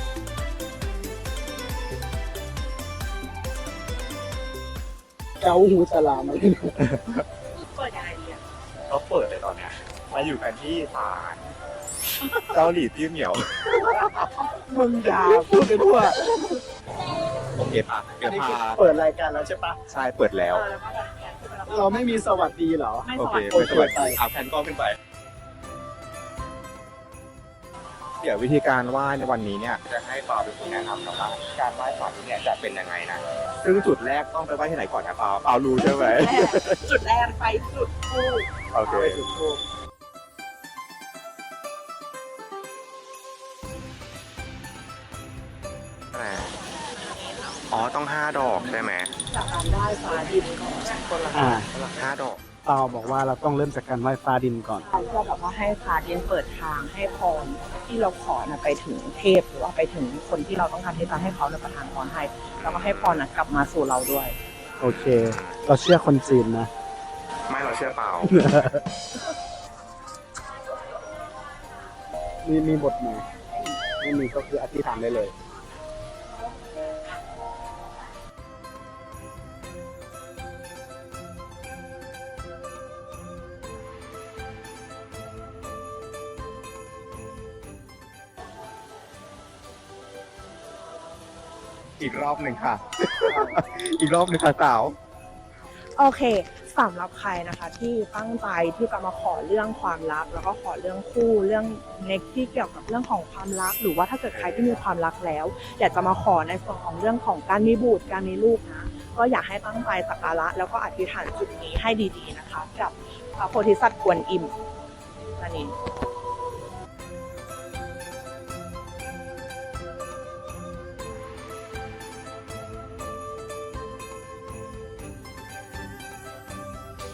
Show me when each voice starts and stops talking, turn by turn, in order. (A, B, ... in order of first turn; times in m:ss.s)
0:05.4-0:06.8 A
0:06.8-0:07.2 B
0:07.7-0:08.4 C
0:08.9-0:11.4 B
0:12.4-0:14.3 B
0:14.7-0:16.3 A
0:15.3-0:15.8 B
0:17.5-0:18.8 B
0:18.2-0:19.8 A
0:19.9-0:20.6 B
0:20.5-0:24.0 C
0:21.7-0:24.2 A
0:23.1-0:25.0 B
0:28.2-0:36.8 B
0:35.8-0:38.4 C
0:38.7-0:39.2 B
0:38.8-0:39.6 A
0:46.1-0:46.5 B
0:46.9-0:47.7 C
0:47.7-0:49.1 B
0:49.3-0:51.9 C
0:51.3-0:51.7 A
0:51.9-0:53.2 B
0:52.6-0:54.8 A
0:54.8-1:04.3 C
1:02.6-1:03.2 B
1:04.8-1:06.7 A
1:04.8-1:05.6 B
1:07.5-1:08.6 B
1:08.2-1:08.8 A
1:12.4-1:13.3 A
1:14.0-1:15.3 A
1:32.0-1:34.9 B
1:36.0-1:54.5 C
1:44.3-1:44.8 B
1:55.4-1:55.7 C